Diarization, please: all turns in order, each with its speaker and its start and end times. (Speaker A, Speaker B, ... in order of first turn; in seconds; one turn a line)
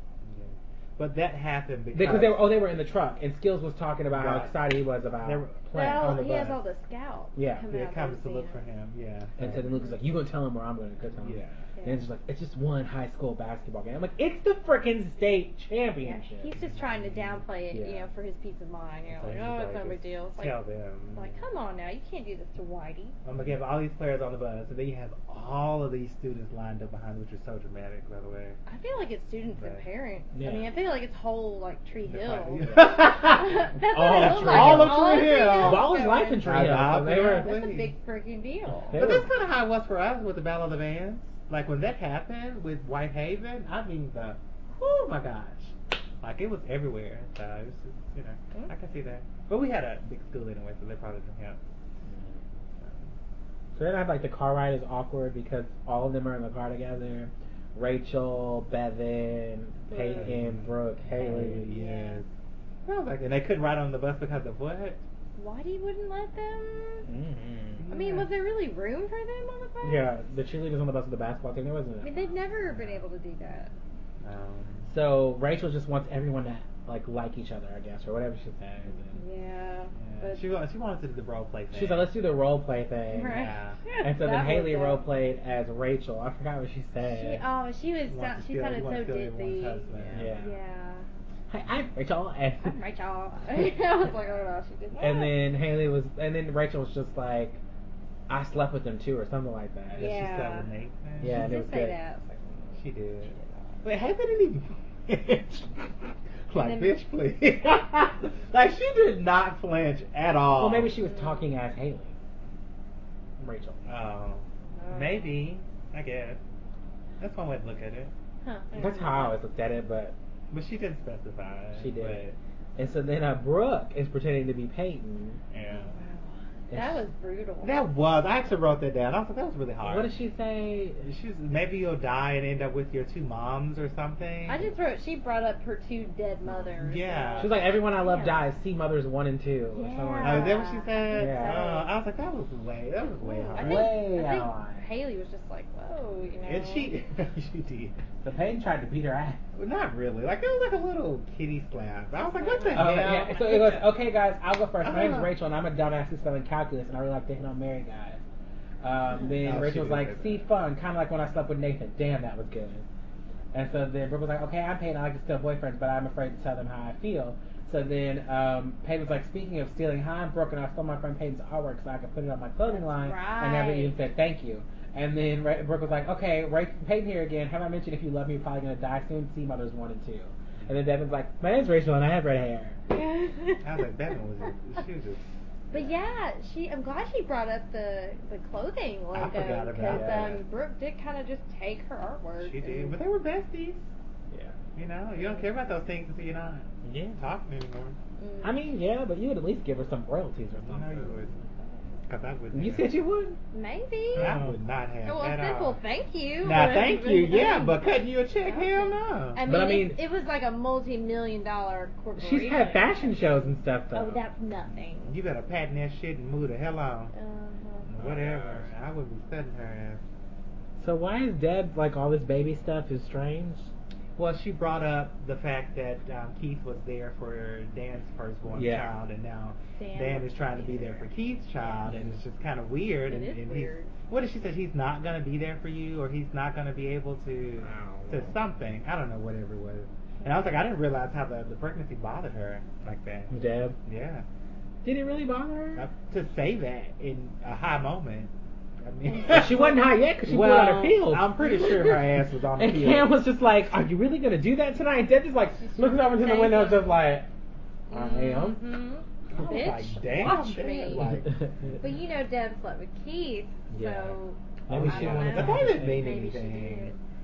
Speaker A: 0.2-2.5
Speaker B: 1.9-6.2
Speaker A: 4.1-4.6
Speaker A: 5.2-6.6
Speaker C: 5.7-8.6
Speaker B: 7.4-7.6
Speaker A: 7.7-9.7
Speaker B: 9.4-16.5
Speaker C: 9.6-10.0
Speaker A: 11.2-11.6
Speaker C: 11.8-12.0
Speaker C: 16.0-20.6
Speaker A: 16.5-17.4
Speaker B: 17.7-18.1
Speaker A: 19.1-21.4
Speaker C: 21.1-23.1
Speaker A: 23.2-28.6
Speaker C: 28.7-39.0
Speaker A: 29.6-29.8
Speaker B: 30.4-30.7
Speaker A: 32.0-33.5
Speaker B: 33.0-37.5
Speaker A: 34.1-37.9
Speaker B: 38.8-39.3
Speaker A: 38.9-51.6
Speaker B: 52.0-52.4
Speaker A: 52.8-53.1
Speaker B: 53.8-61.8
Speaker C: 59.9-60.3
Speaker A: 60.1-62.2
Speaker C: 61.2-62.2
Speaker A: 62.9-65.0
Speaker C: 65.4-67.1
Speaker B: 67.0-67.9
Speaker A: 67.8-68.3
Speaker C: 67.9-70.1
Speaker B: 69.8-72.3
Speaker C: 72.0-73.7
Speaker A: 74.2-74.9
Speaker B: 74.9-79.2
Speaker C: 79.1-80.5
Speaker A: 80.0-82.1
Speaker B: 81.7-87.4
Speaker C: 83.1-85.0
Speaker A: 83.3-83.8
Speaker C: 87.0-91.0
Speaker A: 88.1-90.3
Speaker B: 90.1-90.5
Speaker B: 91.5-92.8
Speaker C: 92.6-95.5
Speaker B: 95.0-97.6
Speaker B: 98.3-100.1
Speaker A: 100.0-101.6
Speaker C: 100.0-100.7
Speaker B: 101.2-102.0
Speaker C: 101.2-103.8
Speaker A: 102.8-110.9
Speaker C: 106.5-107.0
Speaker B: 110.5-112.1
Speaker C: 111.0-111.5
Speaker B: 113.4-113.8
Speaker A: 113.9-116.4
Speaker C: 114.8-115.5
Speaker A: 117.2-118.1
Speaker C: 118.4-119.4
Speaker B: 118.8-120.1
Speaker A: 120.5-122.4
Speaker B: 121.8-122.2
Speaker B: 122.8-125.4
Speaker A: 125.5-126.0
Speaker C: 125.7-127.8
Speaker B: 126.7-127.0
Speaker A: 127.6-130.1
Speaker B: 129.8-131.0
Speaker A: 131.0-134.7
Speaker C: 134.5-138.5
Speaker A: 136.5-137.5
Speaker B: 137.4-141.7
Speaker C: 139.7-141.9
Speaker A: 140.2-144.0
Speaker C: 143.2-146.9
Speaker B: 143.5-144.9
Speaker A: 146.4-148.0
Speaker B: 148.2-149.4
Speaker A: 149.6-153.9
Speaker C: 152.2-153.2
Speaker B: 152.7-158.2
Speaker A: 154.8-155.3
Speaker B: 158.8-162.8
Speaker A: 159.4-160.4
Speaker B: 163.5-182.8
Speaker C: 172.7-174.0
Speaker C: 182.9-183.8
Speaker A: 183.6-185.2
Speaker C: 185.7-193.0
Speaker A: 189.1-190.4
Speaker B: 189.9-190.4
Speaker A: 192.4-193.9
Speaker B: 194.3-194.6
Speaker A: 194.8-198.0
Speaker C: 195.1-195.5
Speaker B: 196.8-197.2
Speaker C: 198.2-198.6
Speaker B: 198.4-201.3
Speaker A: 200.6-201.4
Speaker A: 202.1-202.9
Speaker B: 202.5-203.4
Speaker C: 203.5-204.3
Speaker B: 204.2-204.6
Speaker A: 204.2-205.8
Speaker C: 205.0-215.2
Speaker A: 206.4-209.4
Speaker B: 209.4-210.0
Speaker B: 212.2-214.2
Speaker A: 215.0-217.1
Speaker C: 217.1-217.9
Speaker A: 217.9-220.0
Speaker B: 217.9-218.7
Speaker B: 220.8-223.7
Speaker A: 224.2-243.3
Speaker B: 228.5-228.9
Speaker C: 229.8-231.1
Speaker B: 231.6-232.2
Speaker C: 233.0-233.9
Speaker B: 237.6-238.3
Speaker C: 240.2-240.5
Speaker B: 243.3-243.8
Speaker A: 243.8-244.2
Speaker B: 244.8-245.9
Speaker A: 245.8-249.7
Speaker C: 249.1-250.0
Speaker B: 249.3-251.9
Speaker A: 250.2-253.1
Speaker C: 251.5-251.9
Speaker B: 252.6-257.3
Speaker C: 255.6-257.1
Speaker C: 257.9-261.1
Speaker B: 257.9-258.6
Speaker A: 259.3-261.8
Speaker B: 260.9-261.8
Speaker C: 261.8-267.0
Speaker B: 263.7-266.1
Speaker A: 264.7-266.9